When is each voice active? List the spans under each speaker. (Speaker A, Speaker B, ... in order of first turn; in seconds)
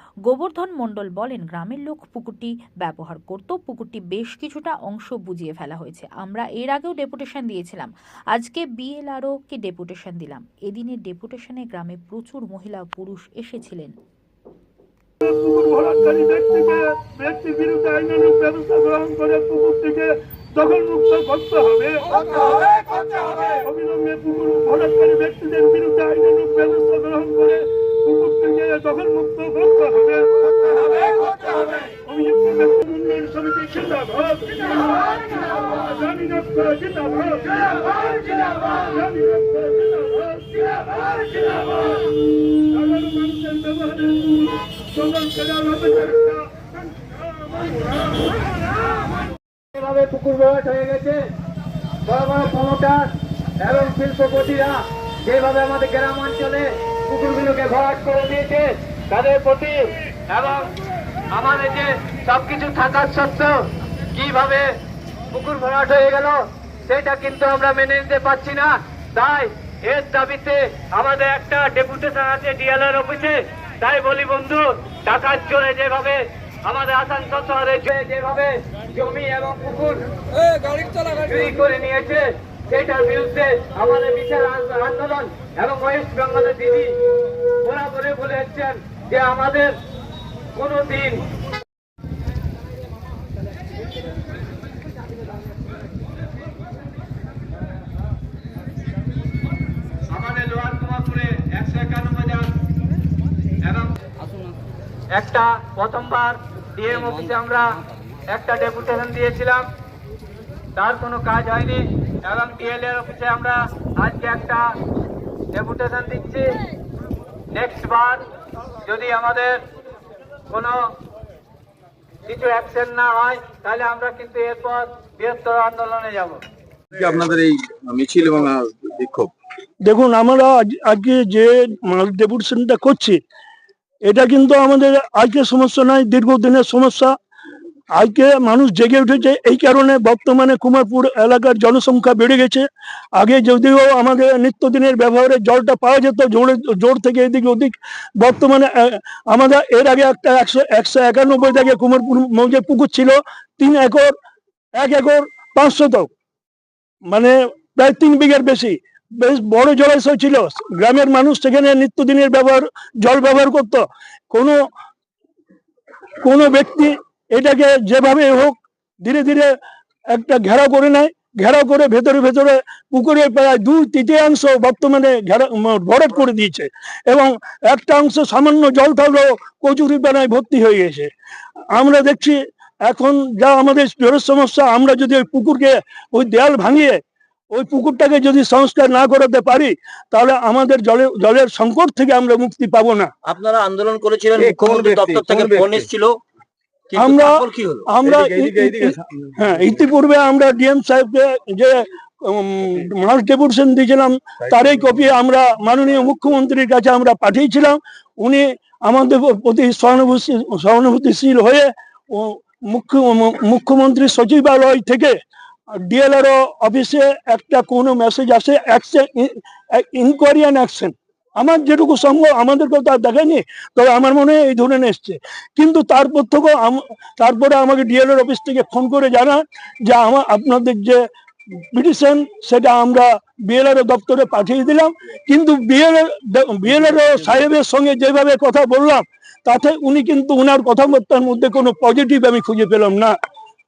Speaker A: 0.3-13.9
Speaker B: 15.2-42.0, 42.7-48.5, 129.8-133.2, 134.1-137.1, 138.0-142.6, 143.2-154.1, 154.8-156.1, 157.1-164.6, 166.2-169.5, 170.1-181.1, 181.7-187.0, 187.5-193.1, 197.0-215.1, 215.8-231.0, 231.7-243.1
Speaker C: 49.7-51.2, 52.1-53.1, 53.6-60.7, 61.3-63.5, 64.1-64.7, 65.3-66.3, 66.9-80.1, 80.6-86.9, 87.6-89.7, 90.5-91.2, 100.1-102.5, 103.6-103.9, 105.1-107.7, 108.3-109.7, 110.8-114.6, 115.5-116.5, 117.5-118.2, 118.8-119.6, 120.5-120.8, 122.3-126.4
Speaker D: 126.9-129.3, 194.4-195.9, 198.0-199.3, 204.5-204.8
Speaker E: 193.2-196.2, 196.9-197.9